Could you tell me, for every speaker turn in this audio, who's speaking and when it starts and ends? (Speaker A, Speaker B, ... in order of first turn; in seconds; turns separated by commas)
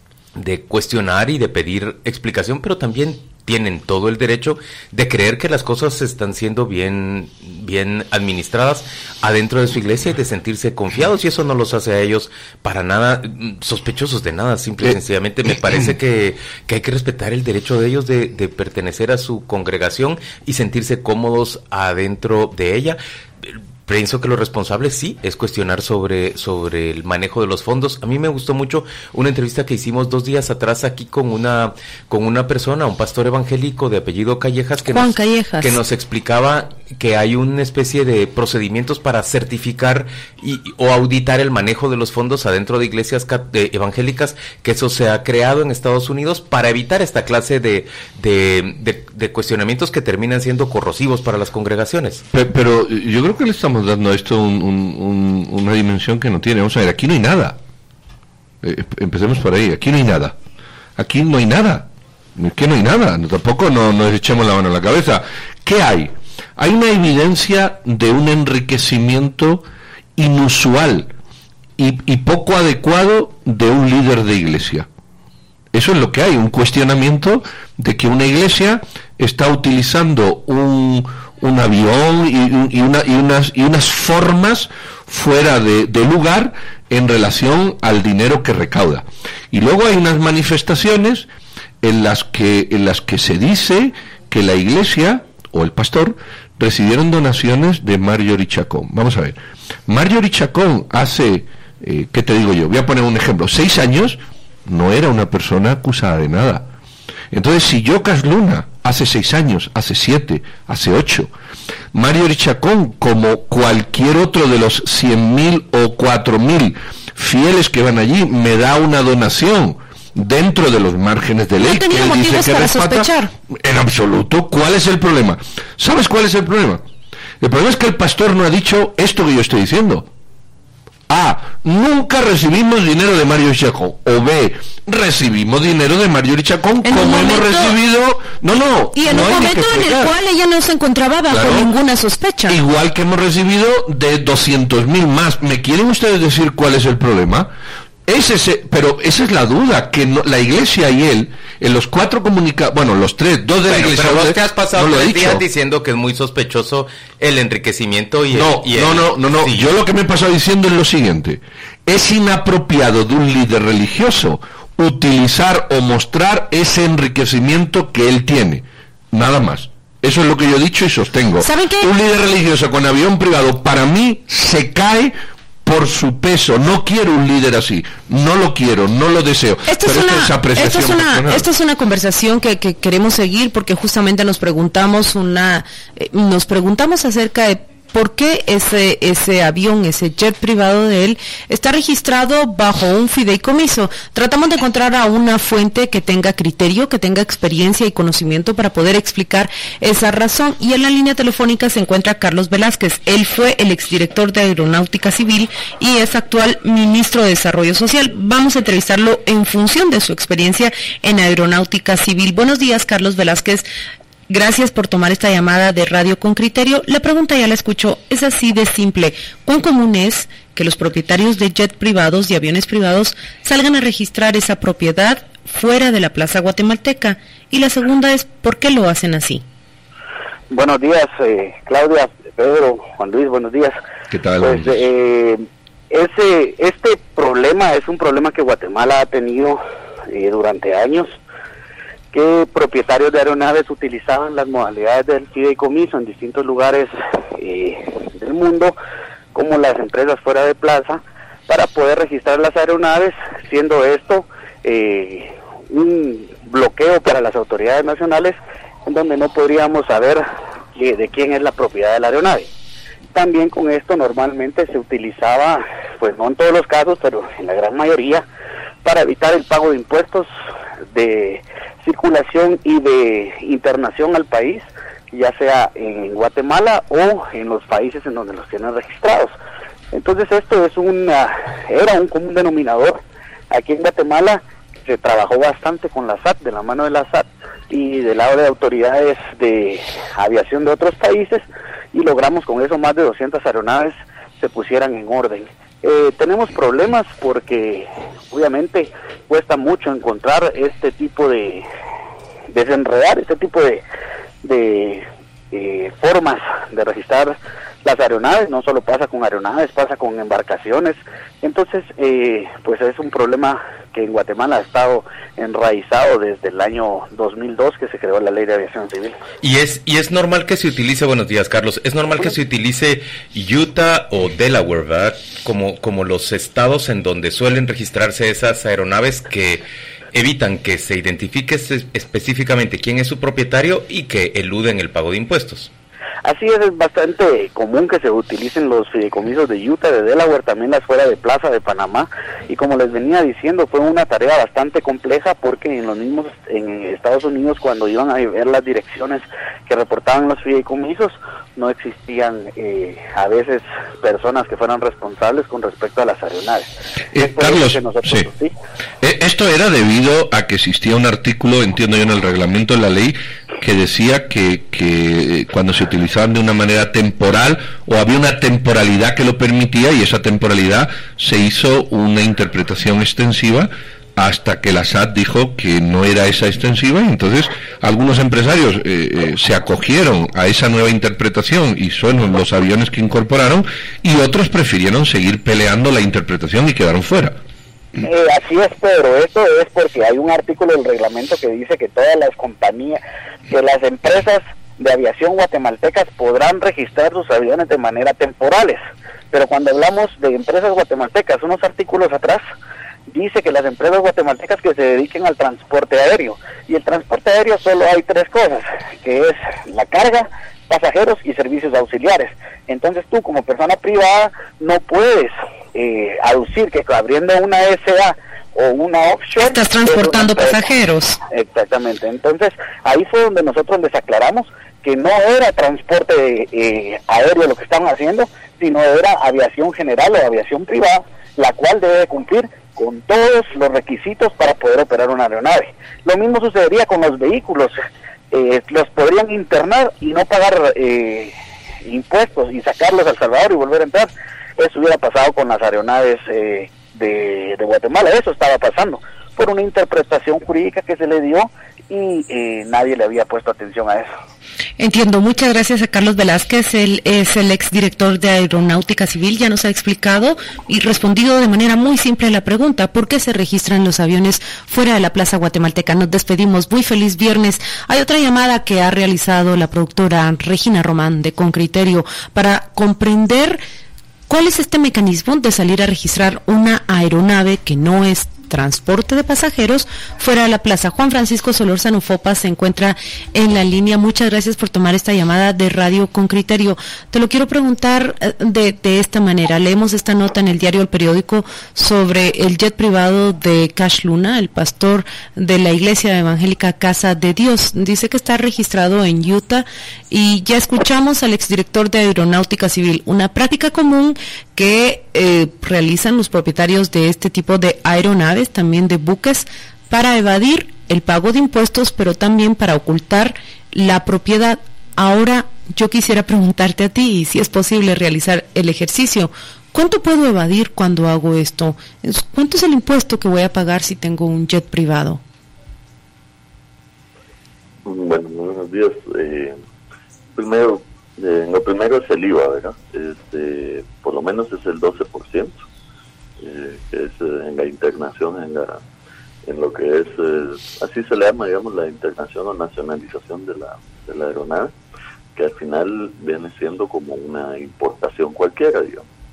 Speaker A: 0.4-52.2, Speaker B: 34.9-35.8, Speaker C: 52.3-57.6, Speaker C: 58.6-60.4, Speaker C: 61.0-69.6, Speaker C: 70.2-71.1, Speaker C: 71.8-74.9, Speaker C: 75.7-91.3, Speaker C: 91.8-106.7, Speaker C: 107.3-111.3, Speaker C: 111.9-126.8, Speaker B: 121.6-123.3, Speaker C: 127.4-130.1, Speaker C: 131.1-140.1, Speaker B: 136.8-137.8, Speaker B: 138.9-142.6, Speaker C: 141.3-141.7, Speaker C: 142.5-147.5, Speaker C: 148.1-155.4, Speaker A: 153.7-159.7, Speaker C: 158.3-181.5, Speaker B: 171.4-171.9, Speaker B: 179.7-213.7, Speaker B: 214.3-229.4, Speaker D: 230.5-233.8, Speaker C: 234.1-234.9, Speaker D: 234.4-239.6, Speaker D: 240.1-241.2, Speaker D: 242.1-248.8, Speaker D: 249.3-260.2, Speaker D: 260.8-262.5, Speaker D: 263.1-268.2, Speaker D: 268.8-270.3, Speaker D: 270.9-279.4, Speaker D: 279.9-301.7, Speaker D: 302.5-303.8, Speaker D: 304.4-319.1, Speaker A: 319.4-335.7, Speaker D: 336.2-358.5, Speaker C: 357.1-358.3, Speaker C: 359.0-387.4, Speaker D: 388.0-398.8, Speaker D: 399.3-402.4, Speaker D: 403.1-420.7, Speaker B: 419.4-421.2, Speaker D: 421.3-437.8, Speaker D: 438.3-441.3, Speaker D: 441.8-454.1, Speaker B: 454.8-473.6, Speaker B: 474.3-525.2, Speaker E: 527.9-529.5, Speaker E: 530.4-535.6, Speaker E: 536.4-538.8, Speaker E: 539.5-544.7, Speaker E: 545.4-549.0